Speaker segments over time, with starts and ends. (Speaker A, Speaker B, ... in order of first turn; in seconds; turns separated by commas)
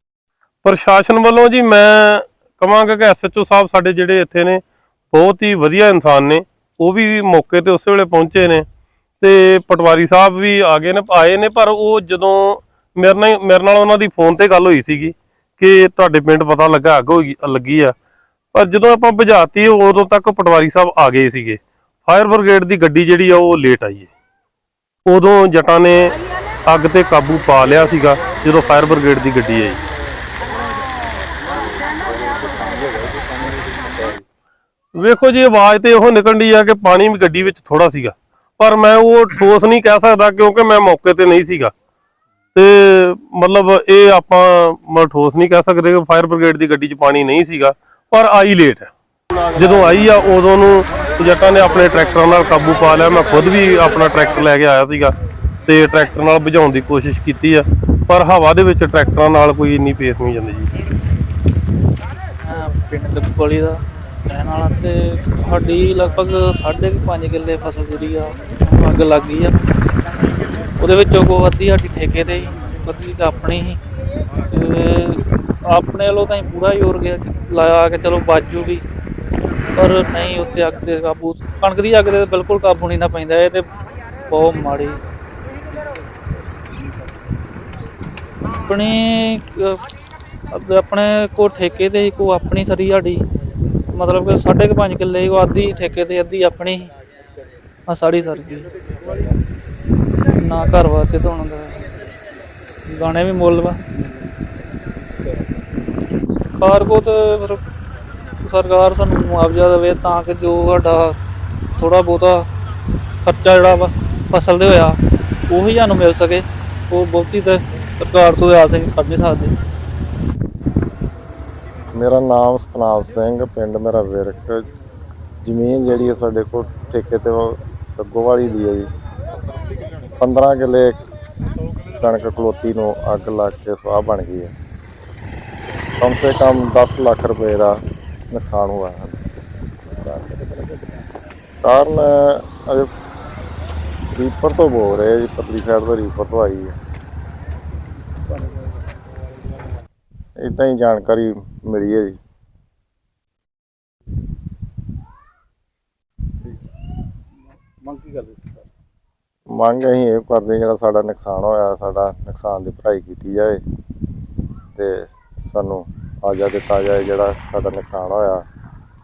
Speaker A: 0.6-8.7, Speaker A: 9.2-17.9, Speaker A: 18.5-24.1, Speaker A: 25.1-26.1, Speaker A: 26.6-29.8, Speaker B: 32.1-34.2, Speaker A: 34.9-41.7, Speaker A: 42.5-48.9, Speaker A: 49.5-55.1, Speaker A: 55.6-60.7, Speaker C: 62.5-69.5, Speaker C: 70.8-73.8, Speaker C: 74.5-78.8, Speaker C: 79.7-83.7, Speaker C: 84.3-85.0, Speaker C: 88.5-89.8, Speaker C: 90.5-93.2, Speaker C: 93.9-96.9, Speaker C: 97.9-98.7, Speaker C: 100.3-101.8, Speaker C: 102.9-103.8, Speaker C: 106.6-107.6, Speaker C: 108.4-111.2, Speaker C: 111.8-112.5, Speaker C: 113.2-119.5, Speaker D: 121.9-124.6, Speaker D: 125.4-128.9, Speaker D: 130.2-131.0, Speaker D: 132.0-134.5, Speaker D: 136.0-137.8, Speaker D: 138.3-139.2, Speaker D: 141.6-142.9, Speaker D: 144.1-146.8, Speaker D: 150.4-152.2, Speaker B: 157.8-158.6, Speaker D: 159.5-163.6, Speaker D: 164.7-168.4